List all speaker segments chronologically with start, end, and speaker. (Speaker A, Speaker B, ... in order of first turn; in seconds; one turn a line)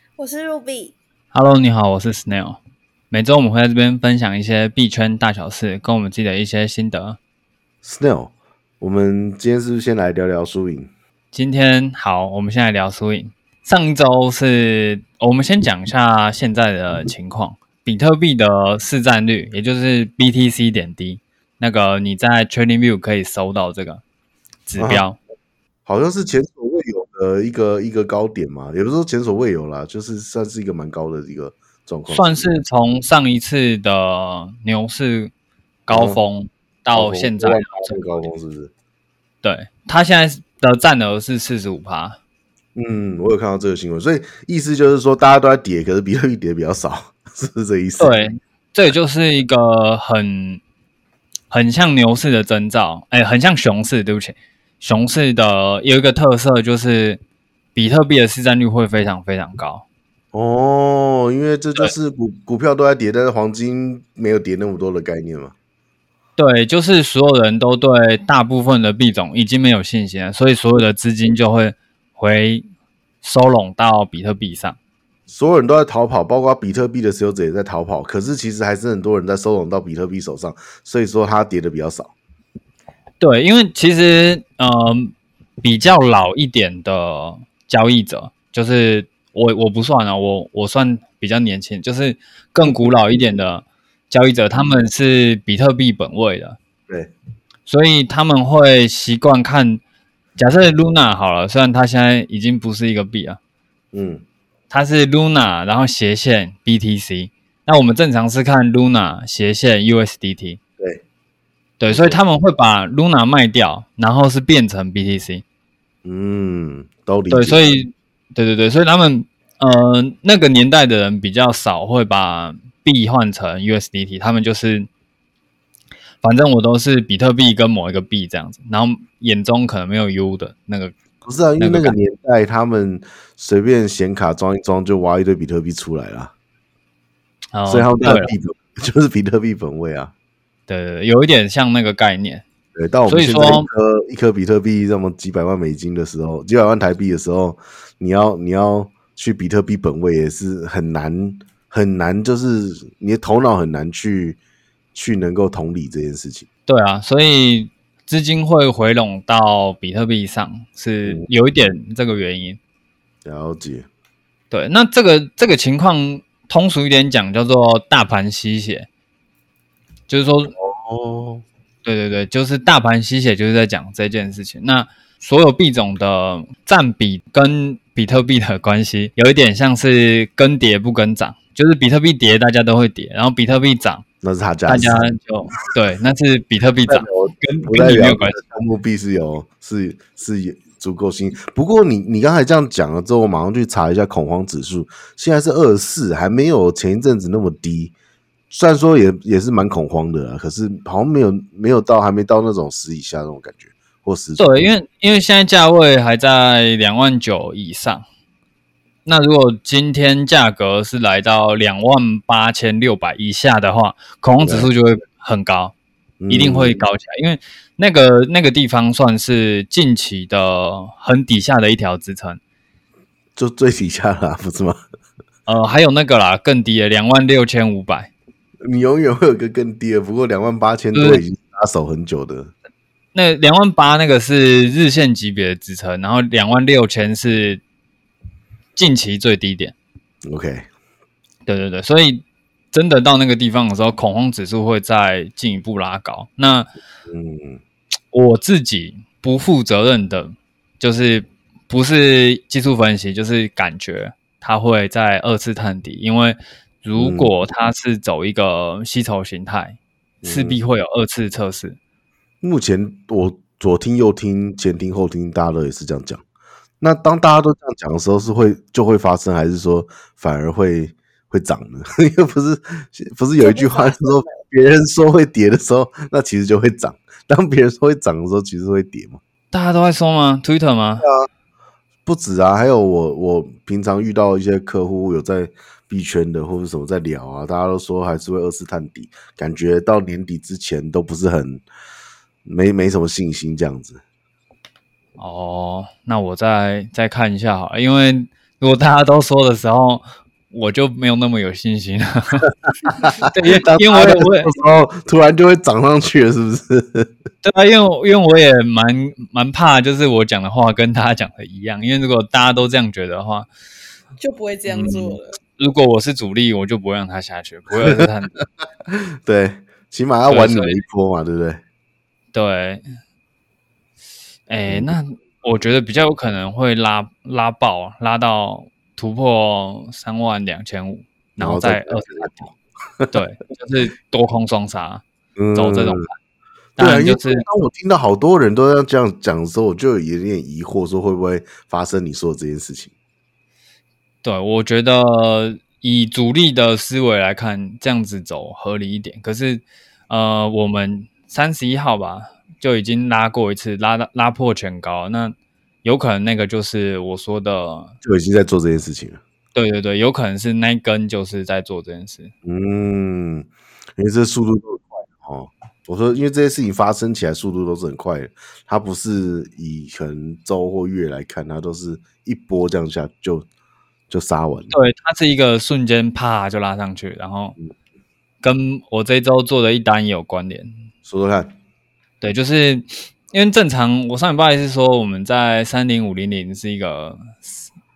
Speaker A: 0.2-0.9
Speaker B: 1.3-2.6
Speaker B: 3.1-7.2
Speaker C: 7.8-10.9
Speaker B: 11.3-24.0
Speaker B: 24.6-25.2
Speaker C: 24.8-25.0
Speaker C: 25.9-32.5
Speaker B: 32.1-35.3
Speaker B: 35.9-38.3
Speaker C: 35.9-36.2
Speaker C: 36.9-38.7
Speaker B: 39.4-42.2
Speaker C: 42.7-48.2
Speaker B: 48.0-50.6
Speaker B: 51.5-57.2
Speaker B: 57.7-59.8
Speaker C: 60.3-65.5
Speaker B: 66.4-72.7
Speaker B: 73.2-74.8
Speaker C: 75.3-82.1
Speaker B: 83.2-96.6
Speaker B: 97.7-99.8
Speaker B: 100.4-103.4
Speaker C: 103.9-104.2
Speaker B: 104.7-110.6
Speaker B: 111.8-115.4
Speaker C: 111.9-112.2
Speaker C: 116.0-117.7
Speaker B: 117.3-124.9
Speaker B: 126.2-130.9
Speaker C: 131.2-136.3
Speaker B: 131.6-131.9
Speaker B: 137.5-138.3
Speaker C: 137.7-140.1
Speaker B: 140.7-142.4
Speaker C: 142.7-154.4
Speaker B: 143.1-143.7
Speaker C: 154.9-156.5
Speaker B: 156.7-162.6
Speaker C: 163.2-163.8
Speaker B: 164.5-168.9
Speaker B: 170.1-170.5
Speaker C: 170.6-171.4
Speaker B: 171.8-184.0
Speaker C: 184.2-185.1
Speaker B: 184.7-188.4
Speaker C: 186.9-197.9
Speaker C: 198.5-204.7
Speaker B: 204.4-208.0
Speaker B: 209.1-215.7
Speaker C: 214.4-214.7
Speaker C: 216.2-216.8
Speaker B: 216.3-222.4
Speaker C: 223.4-224.8
Speaker B: 225.5-228.1
Speaker C: 228.7-232.5
Speaker B: 230.9-231.2
Speaker B: 233.1-237.6
Speaker B: 238.8-239.7
Speaker C: 240.2-240.7
Speaker B: 241.5-246.7
Speaker C: 247.1-247.6
Speaker B: 248.1-261.8
Speaker C: 257.0-257.3
Speaker C: 260.2-260.6
Speaker C: 262.4-266.2
Speaker C: 266.8-279.2
Speaker A: 273.4-274.4
Speaker B: 279.5-281.1
Speaker C: 281.0-281.3
Speaker C: 282.0-291.6
Speaker C: 292.4-294.0
Speaker B: 295.2-302.4
Speaker B: 303.2-304.5
Speaker C: 303.6-307.1
Speaker B: 307.4-313.5
Speaker A: 314.2-315.4
Speaker B: 314.7-318.3
Speaker C: 319.2-321.6
Speaker B: 320.3-320.8
Speaker B: 322.3-322.8
Speaker B: 324.5-332.5
Speaker C: 324.7-324.9
Speaker C: 331.4-333.1
Speaker B: 333.1-336.1
Speaker C: 335.4-336.1
Speaker B: 336.8-337.4
Speaker C: 336.8-342.9
Speaker B: 344.2-357.9
Speaker C: 358.0-359.2
Speaker B: 359.5-362.3
Speaker C: 362.4-373.4
Speaker C: 374.1-374.7
Speaker B: 374.7-377.6
Speaker B: 378.4-380.7
Speaker C: 381.0-381.5
Speaker B: 382.2-387.7